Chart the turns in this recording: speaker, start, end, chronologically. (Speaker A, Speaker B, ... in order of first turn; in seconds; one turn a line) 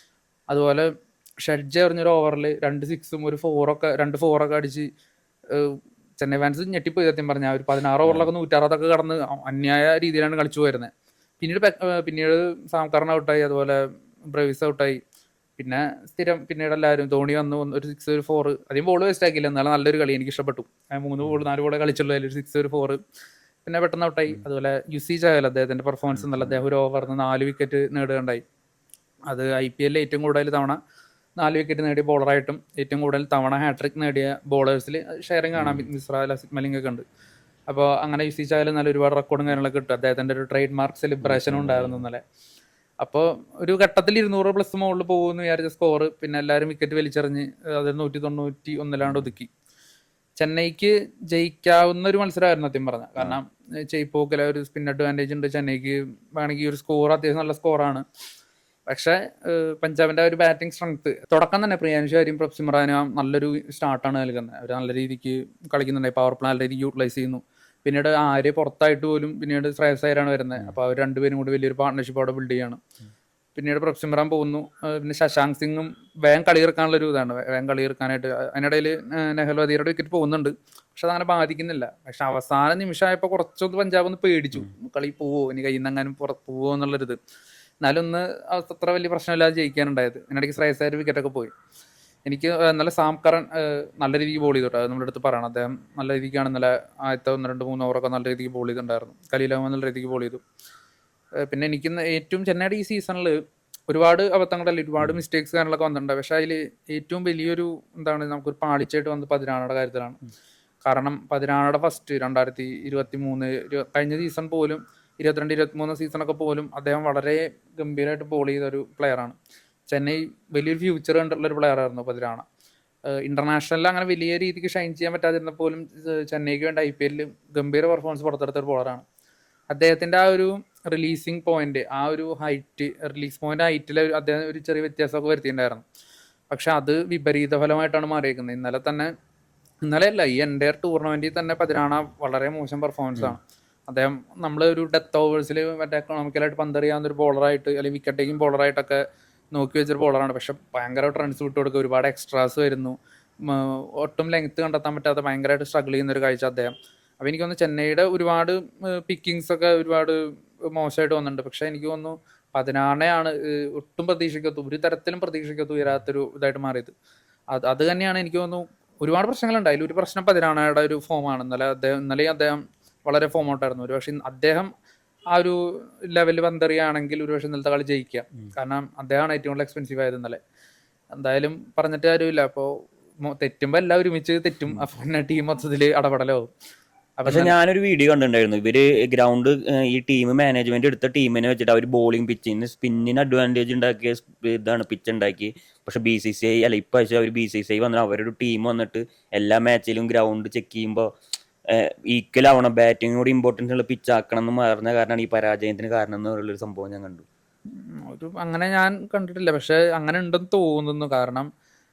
Speaker A: 0.5-0.9
Speaker A: 1.4-4.9
Speaker A: 5.5-13.8
Speaker B: 8.1-8.3
Speaker A: 14.3-15.0
Speaker A: 15.6-23.0
Speaker A: 23.6-28.4
Speaker B: 26.1-26.6
Speaker A: 29.3-30.8
Speaker A: 31.4-37.0
Speaker B: 35.6-35.9
Speaker A: 37.7-42.2
Speaker B: 41.2-42.0
Speaker A: 43.0-49.5
Speaker B: 49.0-49.3
Speaker A: 50.4-58.0
Speaker A: 58.9-72.8
Speaker A: 73.6-87.2
Speaker A: 87.8-91.5
Speaker A: 92.3-100.4
Speaker A: 101.4-103.4
Speaker A: 103.9-110.2
Speaker A: 110.8-119.4
Speaker A: 119.9-122.5
Speaker A: 123.1-129.0
Speaker A: 129.7-135.8
Speaker A: 136.5-139.1
Speaker A: 139.8-149.0
Speaker A: 149.5-160.2
Speaker A: 160.7-166.9
Speaker A: 167.5-174.7
Speaker A: 175.3-180.4
Speaker A: 181.2-182.7
Speaker A: 183.2-186.5
Speaker A: 187.2-187.6
Speaker B: 187.3-201.1
Speaker B: 201.7-207.2
Speaker A: 208.0-211.5